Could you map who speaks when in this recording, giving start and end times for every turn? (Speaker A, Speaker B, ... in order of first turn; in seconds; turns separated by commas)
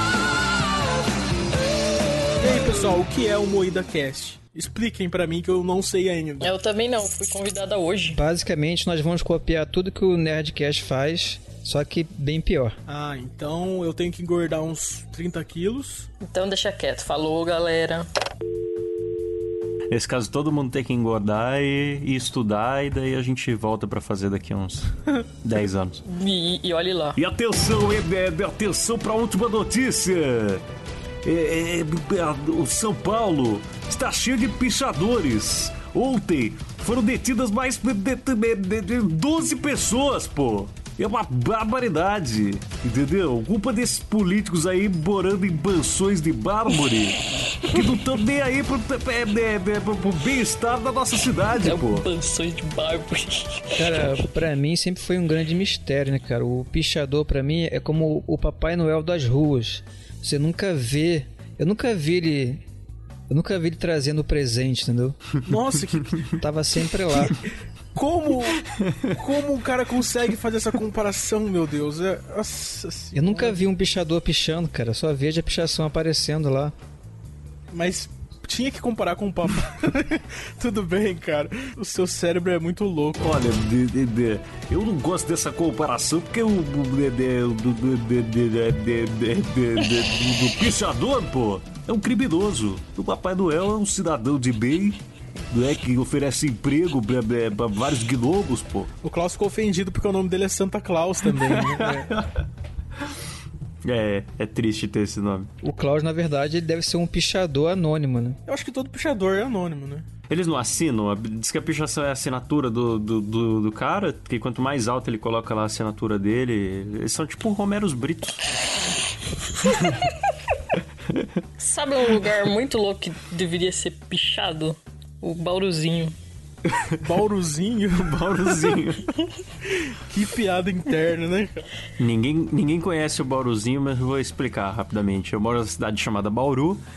Speaker A: 2.4-6.5, Speaker B: 6.4-8.2, Speaker C: 8.1-12.8, Speaker A: 12.9-16.1, Speaker B: 16.2-18.1, Speaker D: 19.9-24.9, Speaker D: 25.4-26.0, Speaker B: 26.0-27.2, Speaker D: 27.1-30.6, Speaker D: 31.2-52.0, Speaker B: 47.5-48.0, Speaker B: 51.5-54.3, Speaker C: 53.8-62.6, Speaker C: 63.3-65.2, Speaker A: 65.4-66.2, Speaker C: 66.4-67.4, Speaker A: 67.9-73.6, Speaker C: 73.1-76.7, Speaker A: 77.7-83.3, Speaker D: 83.2-95.0, Speaker D: 95.5-98.9, Speaker A: 99.0-102.1, Speaker D: 101.3-102.4, Speaker D: 103.8-105.5, Speaker C: 105.6-108.4, Speaker A: 108.5-110.0, Speaker D: 110.3-118.4, Speaker B: 121.6-126.1, Speaker A: 127.0-128.7, Speaker D: 128.0-129.1, Speaker A: 129.7-131.7, Speaker D: 132.0-136.8